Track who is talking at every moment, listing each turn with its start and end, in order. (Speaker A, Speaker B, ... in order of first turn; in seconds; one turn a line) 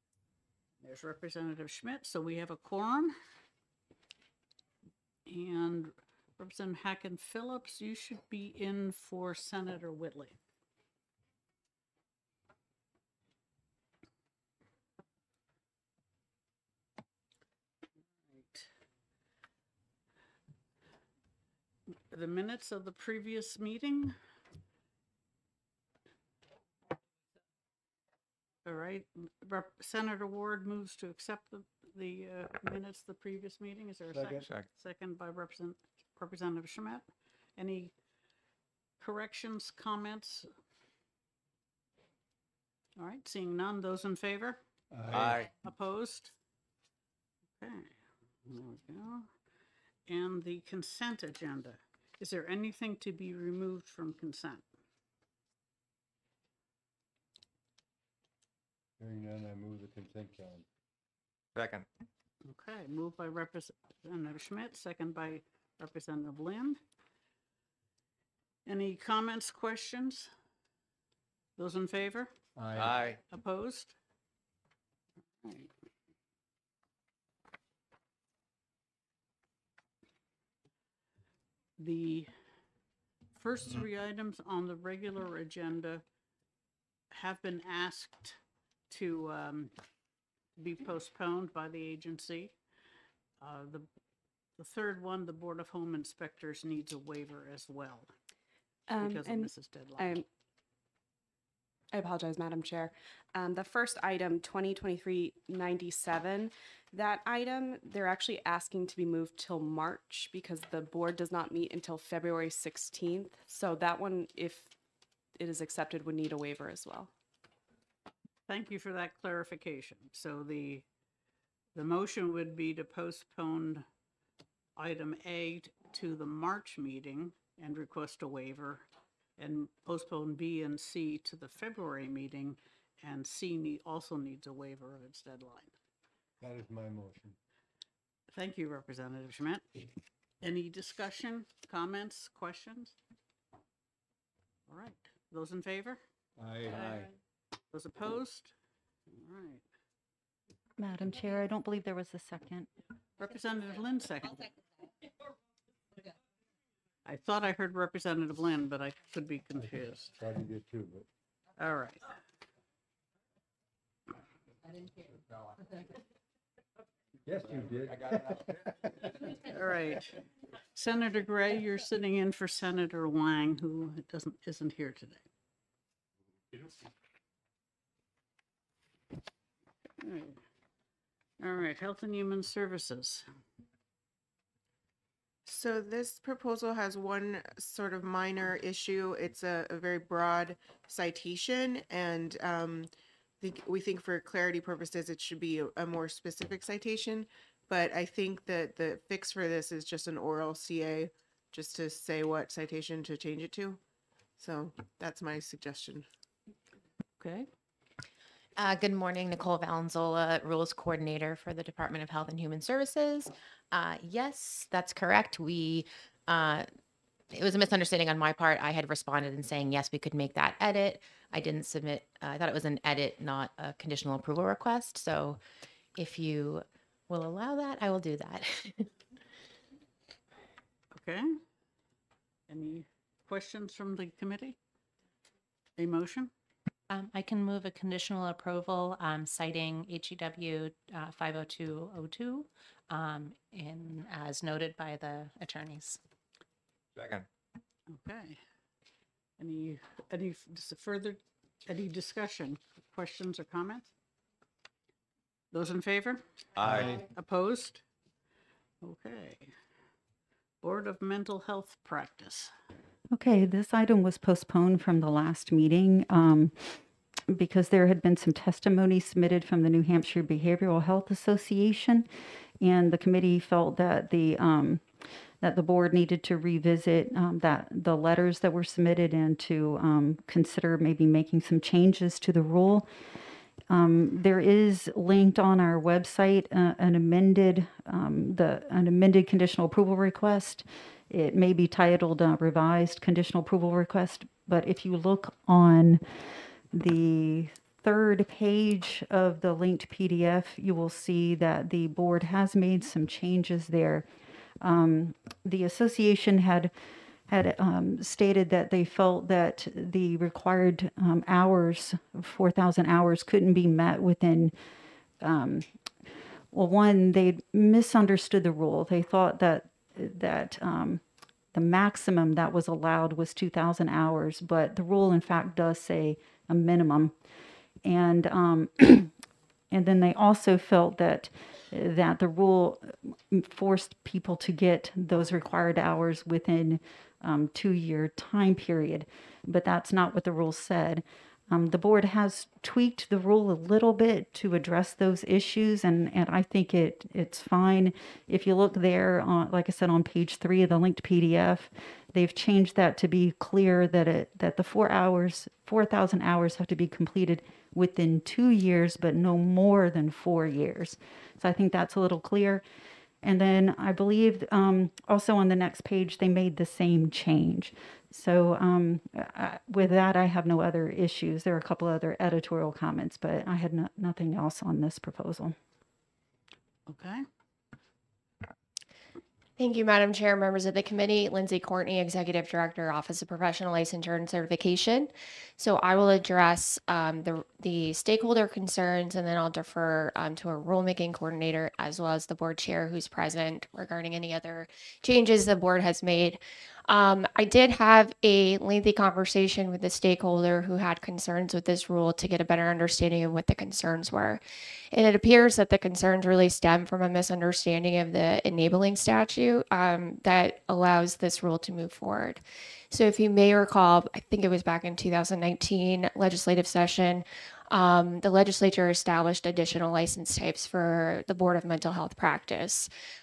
Speaker A: 0.8-3.1
Speaker A: 5.3-10.4
Speaker A: 18.3-18.7
Speaker A: 22.1-24.2
Speaker A: 28.6-37.9
Speaker B: 34.4-34.7
Speaker A: 39.0-40.5
Speaker A: 43.0-44.6
Speaker C: 44.9-45.4
Speaker B: 45.1-45.5
Speaker A: 45.6-46.3
Speaker A: 47.6-49.3
Speaker A: 50.0-54.7
Speaker C: 59.0-60.6
Speaker B: 61.5-61.9
Speaker A: 62.4-66.8
Speaker A: 68.7-70.3
Speaker A: 71.6-72.3
Speaker C: 72.6-73.0
Speaker B: 72.8-73.2
Speaker A: 73.3-74.0
Speaker A: 75.4-75.7
Speaker A: 81.8-82.3
Speaker A: 83.3-86.0
Speaker A: 87.1-89.7
Speaker A: 90.6-92.6
Speaker A: 93.4-93.9
Speaker A: 94.6-98.1
Speaker D: 98.9-100.2
Speaker A: 99.0-100.2
Speaker D: 101.9-114.7
Speaker D: 115.4-117.1
Speaker A: 118.5-120.8
Speaker A: 121.8-123.9
Speaker A: 124.8-128.9
Speaker A: 129.4-135.7
Speaker C: 136.4-137.4
Speaker A: 138.3-139.7
Speaker A: 140.4-143.0
Speaker A: 144.7-146.0
Speaker C: 146.4-147.1
Speaker A: 146.7-147.1
Speaker A: 147.7-148.5
Speaker A: 149.1-149.6
Speaker E: 150.8-152.7
Speaker A: 153.2-154.5
Speaker A: 157.1-160.2
Speaker C: 159.6-161.1
Speaker A: 161.6-162.2
Speaker C: 167.3-168.9
Speaker A: 169.4-170.2
Speaker A: 170.7-175.3
Speaker A: 179.9-180.4
Speaker A: 181.4-183.3
Speaker F: 185.4-192.9
Speaker F: 193.4-203.8
Speaker F: 204.4-206.1
Speaker A: 207.2-207.5
Speaker G: 208.6-216.7
Speaker G: 217.3-225.4
Speaker G: 225.9-228.8
Speaker A: 230.9-231.3
Speaker A: 232.5-234.6
Speaker A: 235.8-236.3
Speaker H: 236.9-246.0
Speaker B: 247.0-247.3
Speaker A: 247.9-248.4
Speaker A: 249.4-253.9
Speaker A: 255.5-256.2
Speaker B: 256.6-257.0
Speaker C: 256.7-257.0
Speaker A: 256.8-257.8
Speaker A: 258.8-259.5
Speaker A: 260.6-262.5
Speaker E: 263.1-272.1
Speaker E: 272.6-274.8
Speaker E: 275.4-282.9
Speaker E: 283.7-304.1
Speaker E: 304.6-306.7
Speaker E: 307.3-314.6
Speaker E: 315.2-315.7
Speaker E: 316.5-327.1
Speaker E: 327.8-329.1
Speaker E: 329.7-362.6
Speaker E: 363.2-375.6
Speaker A: 376.9-377.2
Speaker I: 379.6-422.9